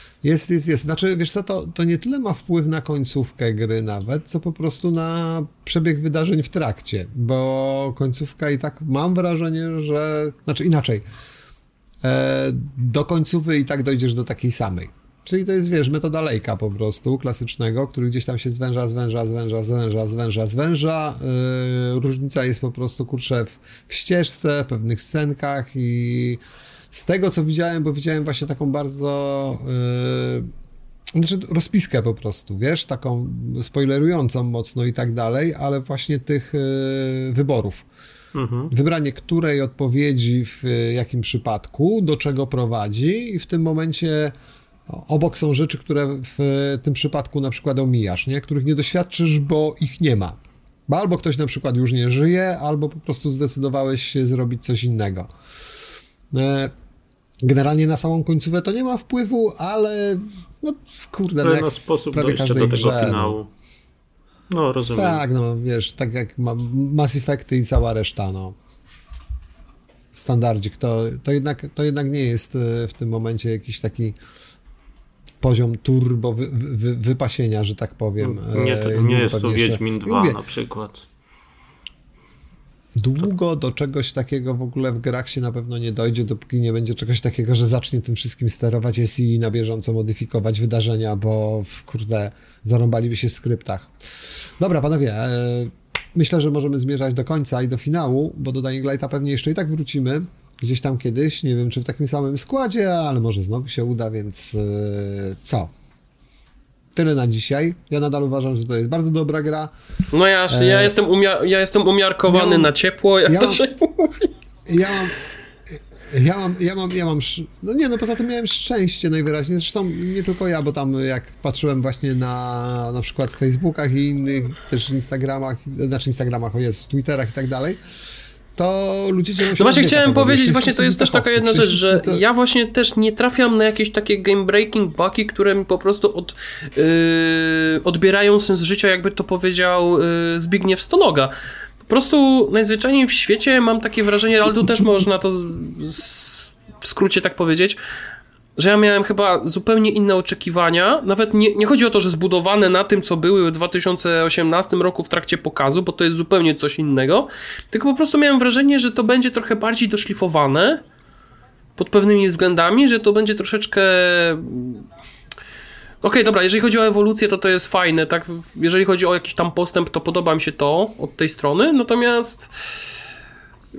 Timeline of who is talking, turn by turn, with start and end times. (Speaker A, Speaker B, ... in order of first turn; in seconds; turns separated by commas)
Speaker A: 0.2-11.0, Speaker A: 12.0-26.4, Speaker A: 26.9-30.5, Speaker A: 31.1-37.9, Speaker B: 38.3-38.7, Speaker A: 38.7-44.3, Speaker A: 44.9-55.3, Speaker A: 56.3-56.7, Speaker A: 57.4-63.4, Speaker B: 61.4-63.5, Speaker B: 64.5-65.2, Speaker A: 64.9-68.6, Speaker A: 70.2-74.2, Speaker A: 75.4-80.4, Speaker B: 78.2-81.1, Speaker A: 83.0-93.9, Speaker A: 94.6-105.7, Speaker A: 107.0-109.7, Speaker C: 110.1-114.3, Speaker A: 110.5-111.0, Speaker A: 112.3-113.6, Speaker A: 114.7-115.2, Speaker A: 115.7-127.8, Speaker A: 128.6-132.2, Speaker C: 129.6-141.3, Speaker C: 141.8-147.8, Speaker C: 148.6-160.8, Speaker C: 161.8-164.9, Speaker C: 166.0-172.5